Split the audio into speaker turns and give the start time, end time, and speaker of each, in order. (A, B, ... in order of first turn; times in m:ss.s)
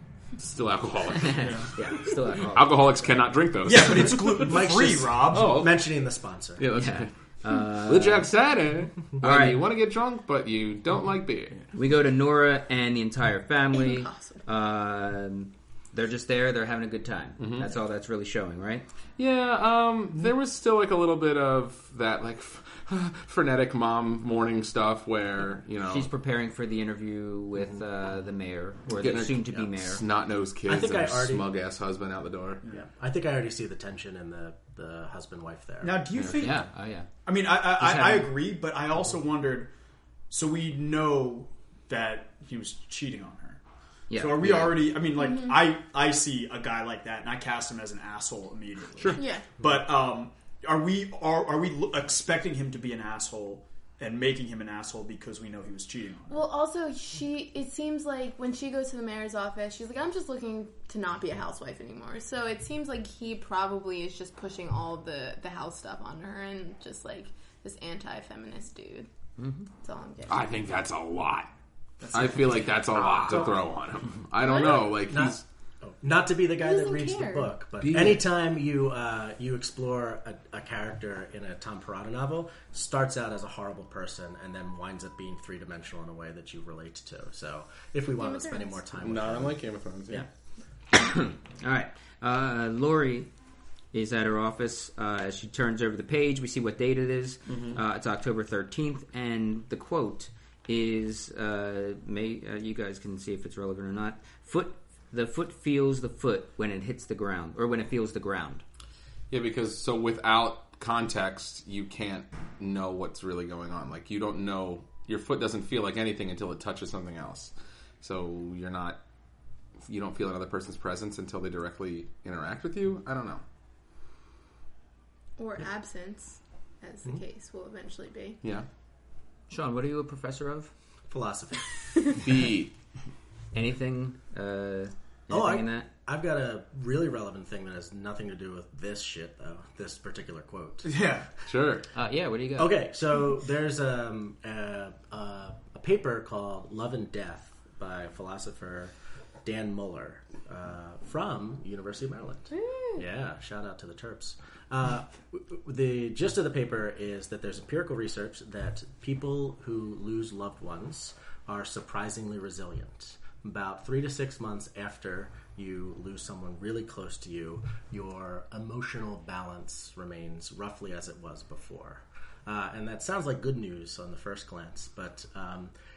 0:00.4-0:04.6 A
0:01.1-0:02.8 B
0:01.4-0:01.7 C
0:03.6-0:05.6 C
0:04.4-0:06.6 D
0:05.3-0:05.8 A
0:06.6-0:11.6 A
0:06.7-0:08.3 B
0:09.2-0:09.7 B
0:11.7-0:18.8 B
0:13.7-0:14.4 E
0:17.4-0:17.7 A
0:19.2-0:26.1 A
0:25.8-0:30.0 B
0:29.0-0:32.6 A
0:30.6-0:31.4 D
0:32.7-0:36.1 D
0:35.8-0:36.6 C
0:36.4-0:37.1 B
0:37.2-0:39.7 C
0:37.8-0:38.3 B
0:40.3-0:43.6 C
0:44.1-0:44.7 B
0:44.1-0:56.4 C
0:45.2-0:45.7 E
0:49.2-0:49.5 E
0:56.3-1:09.1 E
1:09.4-1:09.7 B
1:09.8-1:10.5 E
1:10.3-1:11.5 A
1:12.0-1:13.5 C
1:12.1-1:15.4 A
1:13.1-1:13.5 D
1:14.4-1:14.9 E
1:14.5-1:30.3 D
1:16.6-1:17.5 E
1:17.8-1:18.2 A
1:28.2-1:28.8 E
1:29.0-1:30.2 A
1:30.9-1:33.3 B
1:33.9-1:48.6 B
1:37.5-1:37.8 A
1:49.3-1:59.0 A
1:59.8-2:03.4 A
2:05.4-2:08.4 E
2:09.5-2:10.7 B
2:11.1-2:11.7 D
2:12.2-2:12.7 A
2:13.5-2:15.9 B
2:15.3-2:20.9 D
2:20.8-2:21.3 C
2:21.4-2:21.9 A
2:21.9-2:22.8 B
2:22.6-2:28.9 D
2:29.4-2:55.7 D
2:32.5-2:33.0 E